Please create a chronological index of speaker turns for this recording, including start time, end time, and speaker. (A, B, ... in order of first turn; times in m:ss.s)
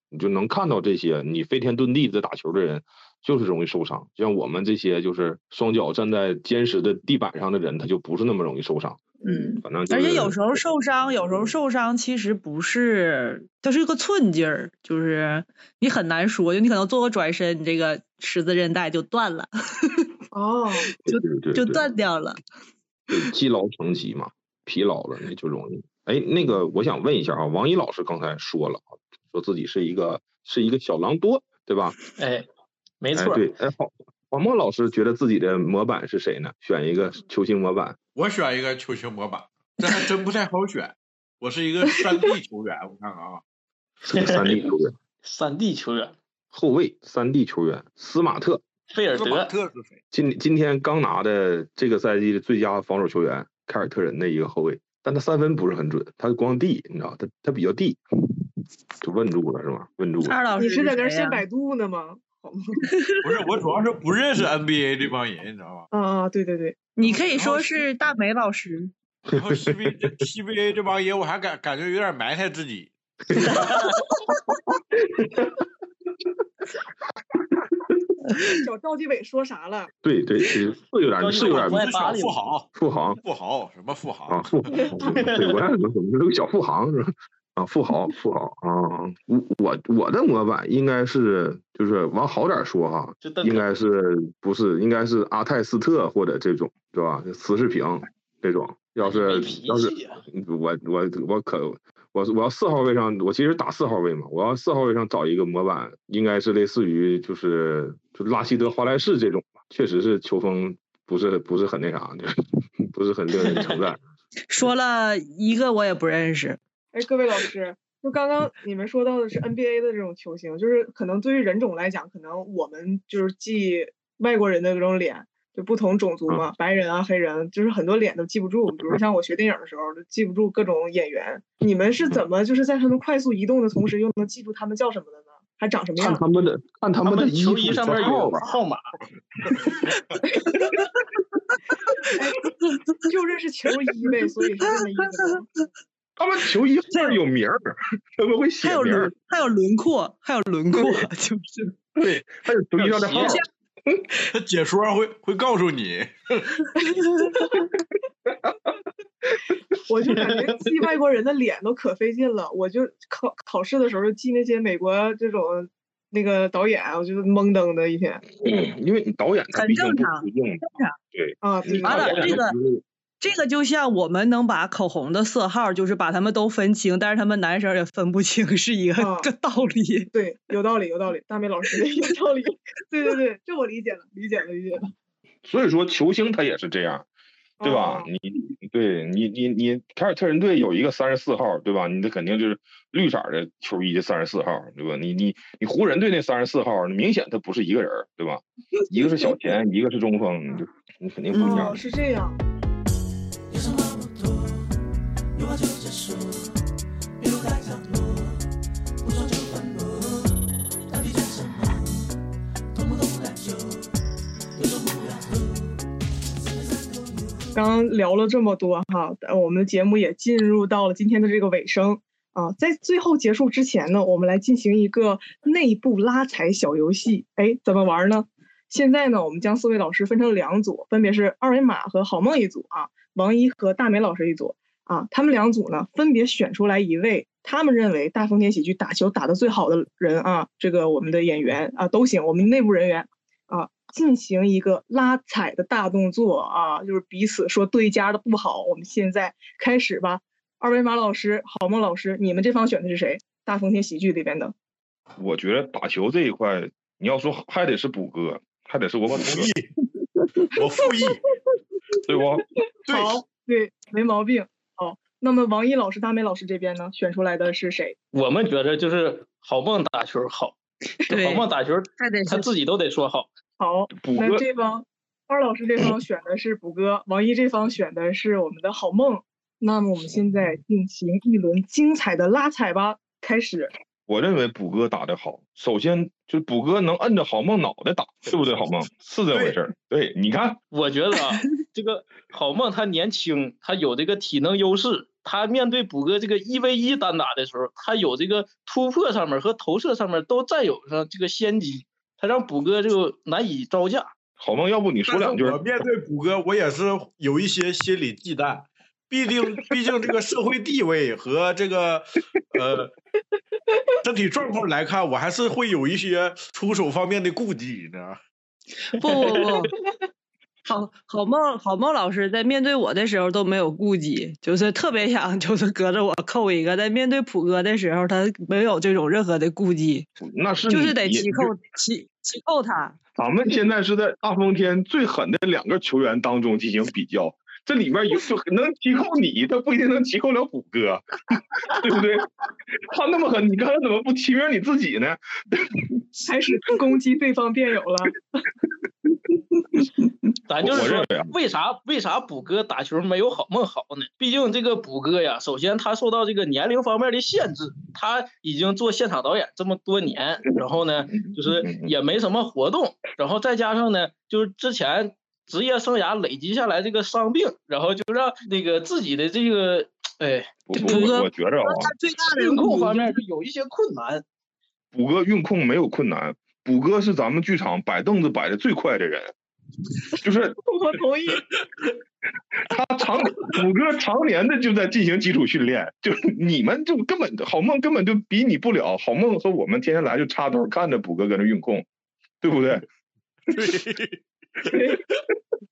0:00.1-0:09.0 A
0:09.2-0:09.5 B
0:09.2-0:20.1 C
0:09.6-0:10.7 A
0:20.3-0:20.9 B
0:21.1-0:21.9 A
0:21.1-0:22.4 C
0:23.1-0:32.0 A
0:32.2-0:32.5 D
0:33.0-0:33.4 D
0:33.1-0:38.0 A
0:38.2-0:43.4 E
0:44.0-0:45.0 A
0:44.1-0:44.7 D
0:45.2-0:46.2 D
0:46.5-0:48.6 A
0:48.9-0:49.5 D
0:49.1-0:50.0 E
0:50.1-0:58.0 A
0:59.0-1:00.4 A
1:00.2-1:01.4 C
1:00.6-1:02.8 B
1:02.9-1:03.2 C
1:03.2-1:05.9 E
1:05.9-1:06.8 B
1:07.0-1:08.9 C
1:07.0-1:07.8 E
1:09.3-1:13.8 E
1:09.4-1:10.1 A
1:13.4-1:14.0 D
1:15.2-1:15.6 A
1:18.6-1:19.9 B
1:20.0-1:22.0 A
1:21.2-1:22.4 D
1:21.4-1:22.7 E
1:22.8-1:23.2 A
1:23.2-1:24.9 E
1:24.3-1:52.4 A
1:25.0-1:25.6 D
1:33.2-1:33.7 D
1:39.0-1:40.2 D
1:52.9-1:54.0 A
1:54.5-1:56.6 C
1:56.9-2:16.2 B
2:16.0-2:18.5 A
2:17.0-2:18.8 D
2:17.9-2:18.2 E
2:20.5-2:20.9 C
2:21.9-2:22.1 C
2:22.1-2:22.4 B
2:22.7-2:23.0 C
2:23.0-2:25.5 B
2:25.2-2:25.4 C
2:26.2-2:29.1 A
2:28.6-2:31.8 C
2:30.8-2:31.1 A
2:32.0-2:34.0 A
2:32.8-2:33.4 E
2:33.2-2:33.4 C
2:34.3-2:36.7 E
2:37.2-2:37.4 C
2:37.4-2:37.7 B
2:39.9-2:48.2 B
2:48.4-2:52.8 A
2:49.5-2:50.9 C
2:51.4-2:52.4 B
2:51.8-2:52.6 C
2:53.2-3:00.1 C
2:59.0-2:59.3 B
3:00.1-3:04.9 B
3:05.4-3:07.1 A
3:07.6-3:08.1 B
3:07.6-3:21.8 A
3:21.4-3:21.7 C
3:21.4-3:22.4 B
3:23.5-3:24.7 F
3:25.4-3:26.5 F
3:27.2-3:28.4 F
3:29.0-3:32.0 F
3:32.7-3:33.9 F
3:34.6-3:35.7 F
3:36.6-3:37.6 F
3:37.5-4:14.5 B
4:15.2-4:19.5 A
4:19.1-4:19.7 E
4:20.5-4:21.2 E
4:22.1-4:22.4 A
4:22.9-4:23.2 E
4:22.9-4:28.0 B
4:28.1-4:30.6 D
4:31.1-4:31.5 C
4:31.1-4:33.3 D
4:32.0-4:32.5 C
4:33.6-4:43.7 B
4:34.0-4:34.4 A
4:44.1-4:50.6 A
4:49.3-4:49.6 E
4:50.7-5:04.1 D
5:04.4-5:05.6 A
5:05.1-5:12.9 E
5:14.0-5:18.2 E
5:18.9-5:19.7 C
5:19.2-5:19.6 D
5:20.7-5:30.1 C
5:30.2-5:31.5 A
5:30.7-5:33.0 C
5:33.2-5:46.0 A
5:46.3-5:48.2 B
5:50.5-6:11.1 D
5:50.6-5:51.3 A
6:01.4-6:01.9 A
6:10.7-6:11.9 A
6:10.7-6:13.2 C
6:12.2-6:14.2 D
6:14.9-6:19.3 A
6:20.2-6:20.6 A
6:20.6-6:21.4 B
6:22.6-6:31.9 A
6:32.4-6:32.8 A
6:33.5-6:34.8 E
6:34.7-6:35.0 B